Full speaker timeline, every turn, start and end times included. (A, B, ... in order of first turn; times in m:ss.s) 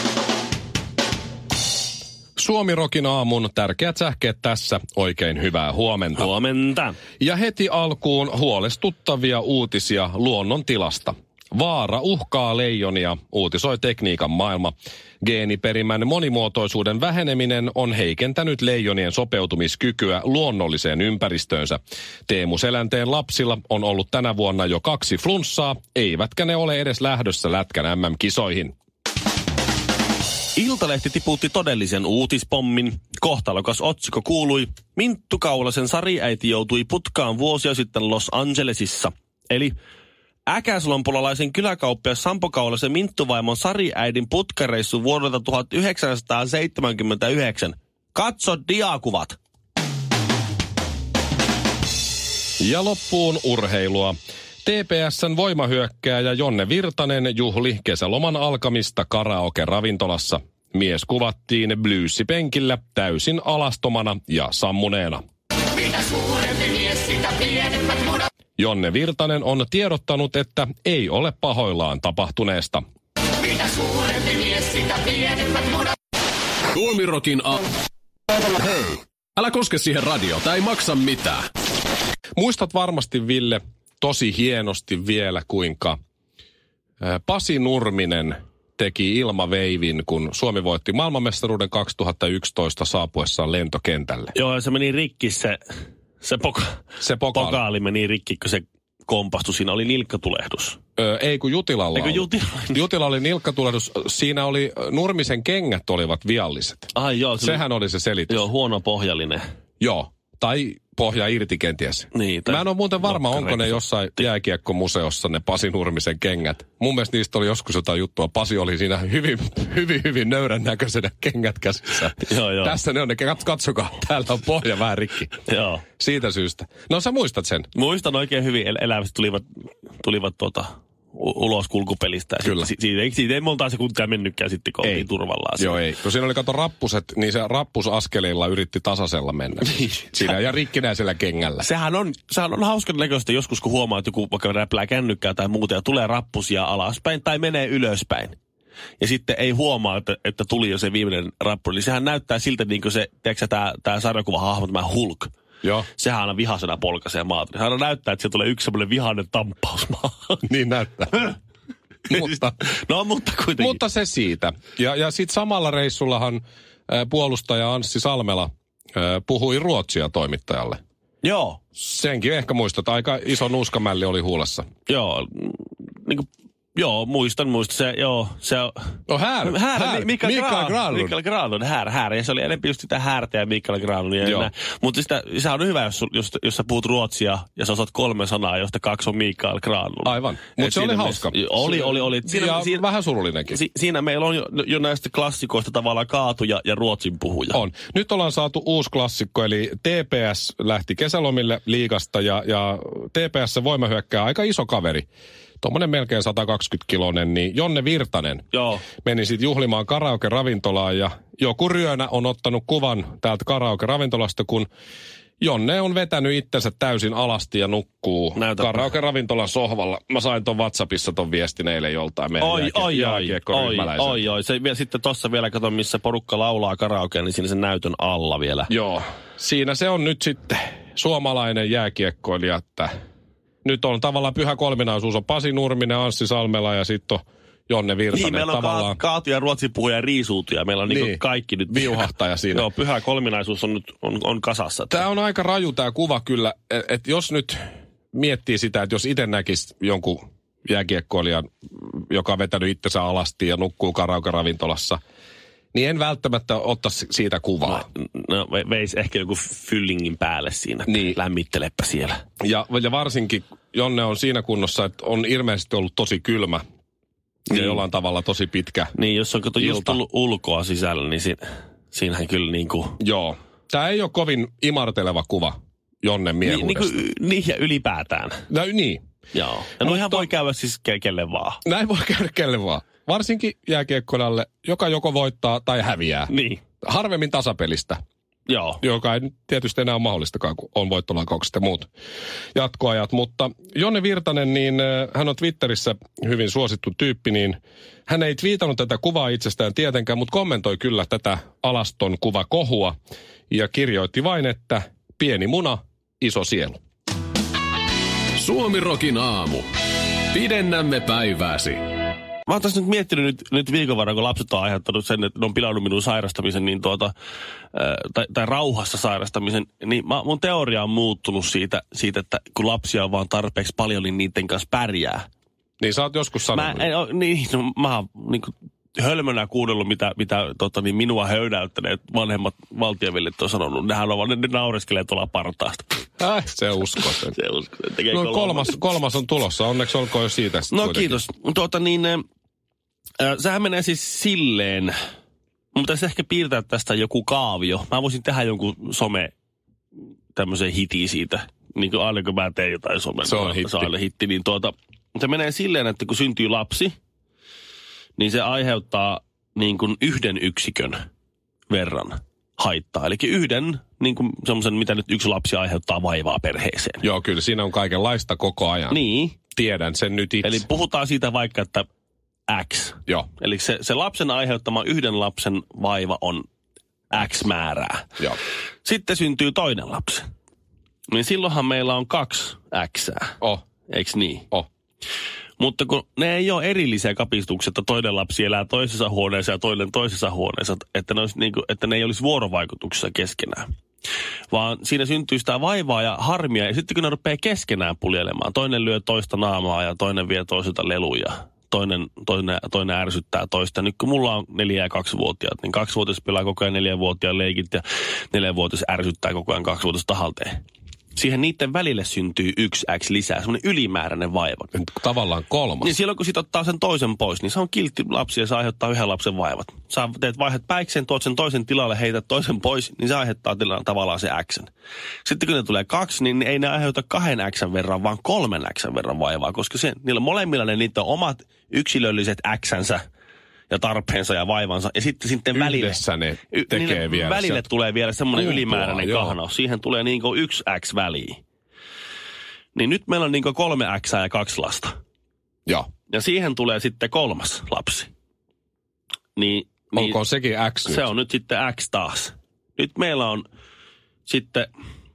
0:02.4-0:06.3 A
0:06.2-0:07.0 B
0:07.2-0:28.7 A
0:30.6-0:39.8 B
0:40.5-0:49.4 B
0:52.6-1:05.2 A
1:08.6-1:12.8 A
1:14.3-1:14.9 C
1:16.7-1:17.7 C
1:18.6-1:21.5 C
1:22.4-1:26.0 A
1:27.0-1:34.3 A
1:34.3-1:35.6 B
1:36.2-1:36.8 B
1:37.0-1:37.6 A
1:37.3-1:40.8 B
1:41.0-1:48.5 A
1:42.0-1:42.8 B
1:47.0-1:47.6 B
1:48.3-1:49.4 B
1:49.8-2:05.4 A
1:52.1-1:54.3 B
2:02.2-2:02.8 B
2:05.5-2:05.8 B
2:06.0-2:07.7 A
2:07.8-2:09.4 B
2:10.0-2:15.8 B
2:12.4-2:12.7 A
2:15.6-2:21.7 A
2:19.7-2:20.3 B
2:21.6-2:28.4 B
2:29.0-2:35.3 B
2:36.0-2:40.4 B
2:40.4-2:41.3 A
2:42.1-2:43.8 B
2:42.1-2:42.4 A
2:43.6-2:50.8 A
2:51.2-2:51.6 B
2:51.8-2:54.7 A
2:54.9-2:58.7 B
2:59.1-3:01.2 A
2:59.4-3:12.8 B
3:04.2-3:04.5 A
3:10.0-3:13.6 A
3:13.5-3:17.6 B
3:17.5-3:25.1 A
3:25.6-3:34.7 A
3:28.5-3:28.9 B
3:35.4-3:44.2 A
3:38.4-3:38.9 B
3:42.4-3:48.7 B
3:48.7-3:52.9 A
3:53.6-3:59.0 A
3:58.1-4:05.0 B
4:00.9-4:02.6 A
4:04.9-4:15.0 A
4:15.7-4:17.9 A
4:17.7-4:22.2 B
4:20.9-4:21.1 A
4:22.4-4:26.6 A
4:27.5-4:28.9 A
4:27.5-4:27.8 B
4:29.0-4:31.4 B
4:29.6-4:30.0 A
4:31.9-4:33.0 B
4:33.0-4:37.0 A
4:36.4-4:38.4 B
4:38.5-4:39.0 A
4:39.3-4:41.6 B
4:39.8-4:40.3 A
4:41.6-4:48.0 A
4:46.3-4:46.6 B
4:48.5-4:48.8 B
4:48.8-4:51.9 A
4:52.6-5:03.0 A
5:03.5-5:06.8 A
5:08.4-5:09.7 C
5:10.3-5:11.8 C
5:12.5-5:17.1 B
5:17.7-5:25.2 B
5:25.8-5:26.9 A
5:26.5-5:36.0 B
5:36.2-5:37.4 A
5:37.4-5:38.9 B
5:38.1-5:41.2 A
5:40.7-5:42.2 B
5:43.2-5:45.0 B
5:45.7-5:49.3 B
5:50.4-5:57.0 B
5:53.2-5:53.9 A
5:58.2-6:01.0 B
6:01.7-6:07.0 B
6:07.0-6:09.0 A
6:08.9-6:09.4 B
6:09.5-6:10.6 A
6:10.4-6:11.9 B
6:12.5-6:16.5 B
6:17.1-6:18.1 B
6:18.8-6:20.2 B
6:21.1-6:23.4 B
6:23.9-6:24.5 B
6:25.6-6:33.7 B
6:34.5-6:50.6 B
6:51.2-6:54.7 B
6:54.7-6:55.9 A
6:55.8-7:04.7 B
7:05.2-7:13.0 B
7:13.7-7:16.0 B
7:15.5-7:17.7 A
7:16.5-7:21.4 B
7:18.3-7:19.4 A
7:22.8-7:24.9 B
7:26.1-7:28.1 B
7:29.4-7:30.2 B
7:29.9-7:31.1 A
7:30.9-7:33.5 B
7:34.3-7:34.7 B